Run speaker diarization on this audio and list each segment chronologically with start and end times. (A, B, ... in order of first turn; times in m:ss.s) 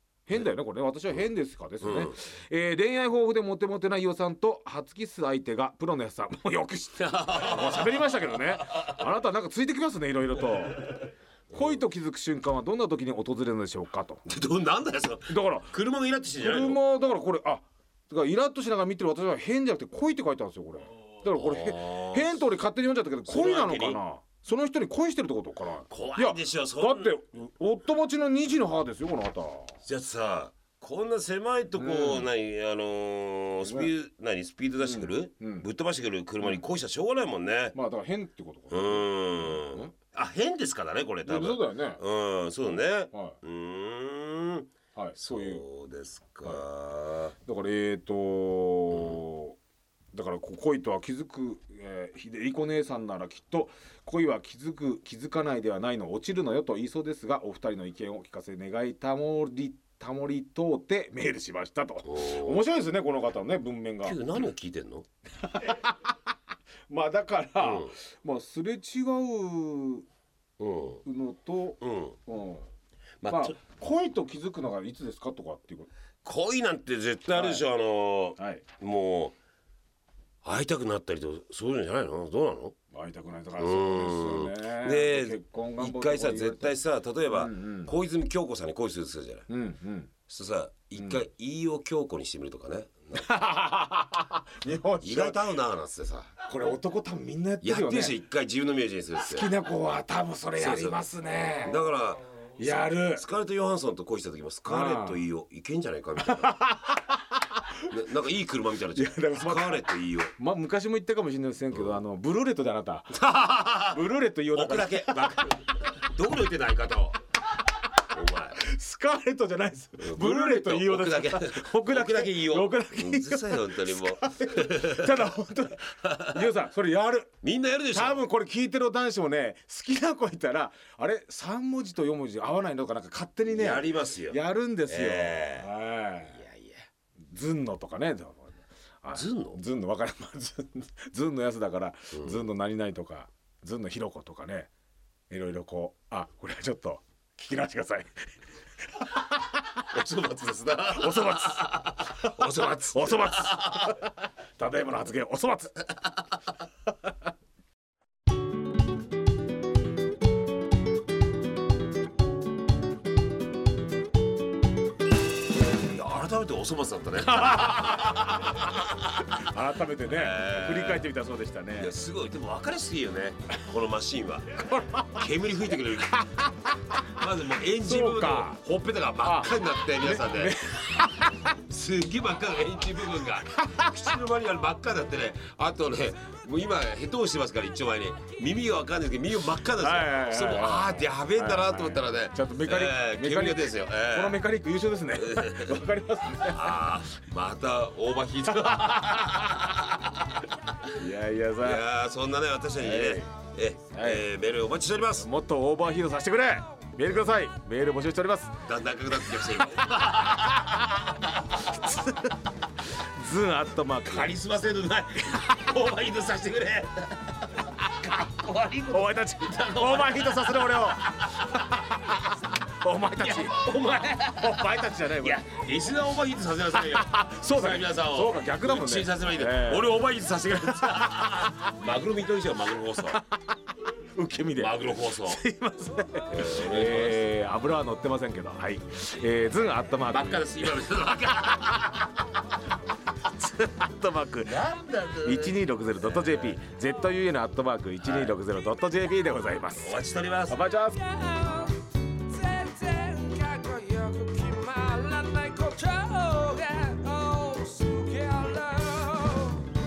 0:00.3-0:14.2 A
0:01.8-0:02.2 B
0:07.1-0:08.0 B
0:14.2-0:16.8 B
0:15.3-0:15.7 A
0:16.4-0:29.8 A
0:21.3-0:22.4 B
0:23.3-0:24.0 B
0:25.9-0:27.1 B
0:29.8-0:37.8 B
0:31.8-0:32.3 A
0:33.6-0:33.9 A
0:34.8-0:35.7 A
0:37.7-0:39.9 A
0:38.7-0:47.4 B
0:41.2-0:42.0 A
0:42.7-0:43.4 A
0:45.0-0:45.6 A
0:47.5-0:49.6 A
0:50.1-1:04.2 A
1:02.0-1:02.7 B
1:04.0-1:05.0 B
1:05.4-1:06.2 A
1:06.9-1:10.1 A
1:07.6-1:07.9 B
1:10.6-1:11.0 B
1:11.0-1:12.7 A
1:11.8-1:12.2 B
1:13.2-1:13.6 B
1:13.3-1:15.9 A
1:16.2-1:19.4 B
1:17.3-1:17.6 A
1:18.4-1:18.6 A
1:20.4-1:22.8 B
1:22.9-1:26.8 A
1:23.6-1:29.5 B
1:27.3-1:27.9 A
1:29.5-1:30.1 A
1:30.3-1:33.3 B
1:31.0-1:31.2 A
1:33.1-1:35.5 A
1:35.0-1:36.3 B
1:36.5-1:38.2 A
1:37.6-1:39.5 B
1:39.2-1:41.8 A
1:40.6-1:41.0 B
1:41.6-1:42.2 B
1:42.6-1:43.2 A
1:43.1-1:46.6 B
1:44.7-1:45.3 A
1:46.2-1:47.2 A
1:47.9-1:50.3 B
1:49.0-1:53.2 A
1:51.7-1:52.0 B
1:53.1-1:54.0 B
1:53.8-1:55.4 A
1:54.5-1:57.2 B
1:58.1-1:58.6 B
1:58.6-2:07.3 A
2:00.0-2:05.3 B
2:06.0-2:06.5 B
2:07.4-2:08.2 B
2:07.9-2:16.4 A
2:13.5-2:15.7 B
2:16.3-2:16.9 B
2:17.3-2:24.7 A
2:19.1-2:19.6 B
2:22.1-2:22.5 B
2:25.3-2:28.3 A
2:29.0-2:29.6 A
2:29.9-2:33.9 B
2:30.9-2:35.9 A
2:45.9-2:49.4 B
2:47.3-2:48.5 A
2:49.3-2:51.9 A
2:50.1-2:51.1 B
2:51.8-2:56.2 B
2:54.6-2:55.2 A
2:56.2-2:57.0 A
2:57.2-3:00.6 B
2:57.8-2:58.6 A
2:59.2-3:01.5 A
3:01.7-3:14.4 B
3:03.5-3:04.0 A
3:09.8-3:16.8 A
3:15.2-3:15.8 B
3:16.4-3:20.4 B
3:18.5-3:19.6 A
3:21.0-3:21.8 A
3:21.6-3:25.3 B
3:22.8-3:23.3 A
3:23.9-3:24.3 A
3:25.2-3:28.6 A
3:28.6-3:31.3 B
3:31.7-3:32.3 A
3:32.9-3:34.4 A
3:34.1-3:41.5 B
3:38.9-3:41.0 A
3:42.7-3:43.6 A
3:43.2-3:53.2 B
3:44.4-3:45.4 A
3:46.8-3:50.0 A
3:50.6-3:51.2 A
3:54.2-4:00.7 A
3:54.5-3:55.4 B
3:56.3-3:57.3 B
4:00.1-4:02.1 B
4:03.3-4:04.6 A
4:04.4-4:06.6 B
4:05.2-4:10.0 A
4:08.0-4:08.4 B
4:09.8-4:10.6 B
4:10.5-4:11.7 A
4:12.4-4:13.5 A
4:12.7-4:19.4 C